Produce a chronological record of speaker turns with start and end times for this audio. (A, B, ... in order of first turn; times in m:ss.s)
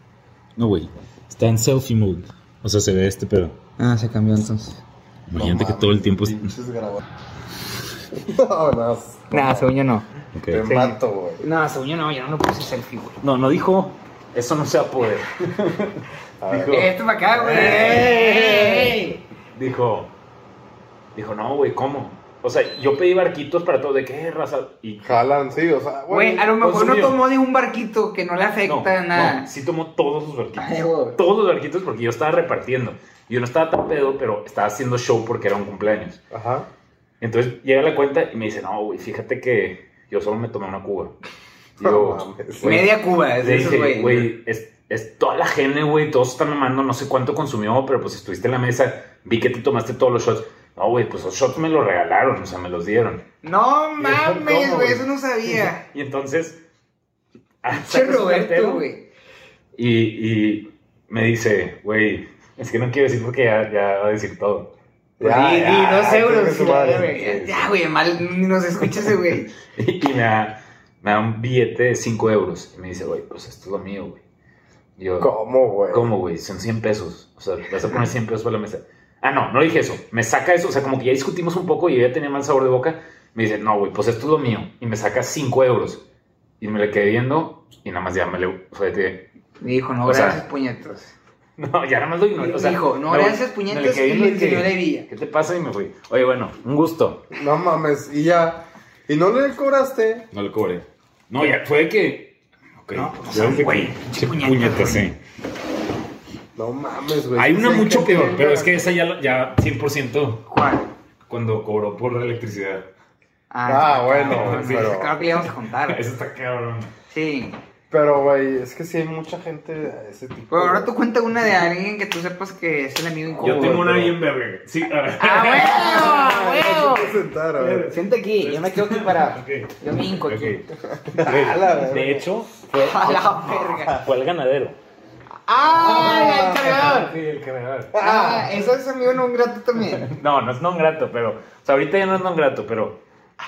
0:00.6-0:03.6 A
0:03.8-0:04.8 B
0:05.3-0:06.5 A
0:05.4-0:07.0 C
0:08.2-0:09.7 C
0:09.3-0:10.1 B
0:10.3-0:10.6 A
0:10.5-0:11.4 C
0:10.6-0:13.2 B
0:13.2-0:16.9 A
0:16.4-0:19.0 C
0:16.7-0:19.2 B
0:17.5-0:18.1 A
0:19.5-0:20.1 A
0:21.1-0:25.2 A
0:25.0-0:26.5 C
0:26.1-0:29.5 B
0:26.6-0:27.2 A
0:28.6-0:36.2 A
0:30.6-0:31.2 B
0:36.3-0:36.7 C
0:37.2-0:41.2 A
0:41.8-0:53.2 A
0:41.8-0:42.9 C
0:42.6-0:44.3 B
0:53.4-0:55.8 B
0:54.0-0:56.6 A
0:57.6-0:58.9 A
0:57.7-0:59.1 B
0:59.8-1:04.7 A
1:05.2-1:07.7 C
1:05.2-1:09.5 B
1:09.7-1:14.2 A
1:15.0-1:15.3 A
1:15.2-1:16.1 C
1:15.9-1:26.0 A
1:26.6-1:29.3 A
1:29.6-1:31.1 B
1:30.0-1:30.4 A
1:31.6-1:37.3 A
1:32.4-1:35.1 B
1:37.3-1:40.3 C
1:40.3-1:45.2 A
1:42.9-1:45.1 B
1:46.6-1:48.7 C
1:47.3-1:50.5 A
1:50.5-1:50.9 B
1:51.3-1:52.9 A
1:53.5-1:56.0 B
1:53.6-1:55.1 C
1:54.3-1:56.9 A
1:57.1-1:57.6 B
1:57.9-2:00.9 C
2:00.5-2:04.1 B
2:03.4-2:04.1 C
2:03.4-2:06.4 A
2:05.2-2:07.2 B
2:05.8-2:08.0 C
2:07.5-2:10.7 A
2:07.9-2:10.6 B
2:10.9-2:12.3 C
2:11.2-2:14.8 A
2:12.7-2:14.0 B
2:15.5-2:17.1 B
2:15.7-2:16.8 C
2:15.8-2:17.9 A
2:17.9-2:18.5 C
2:18.0-2:20.1 B
2:19.9-2:23.0 A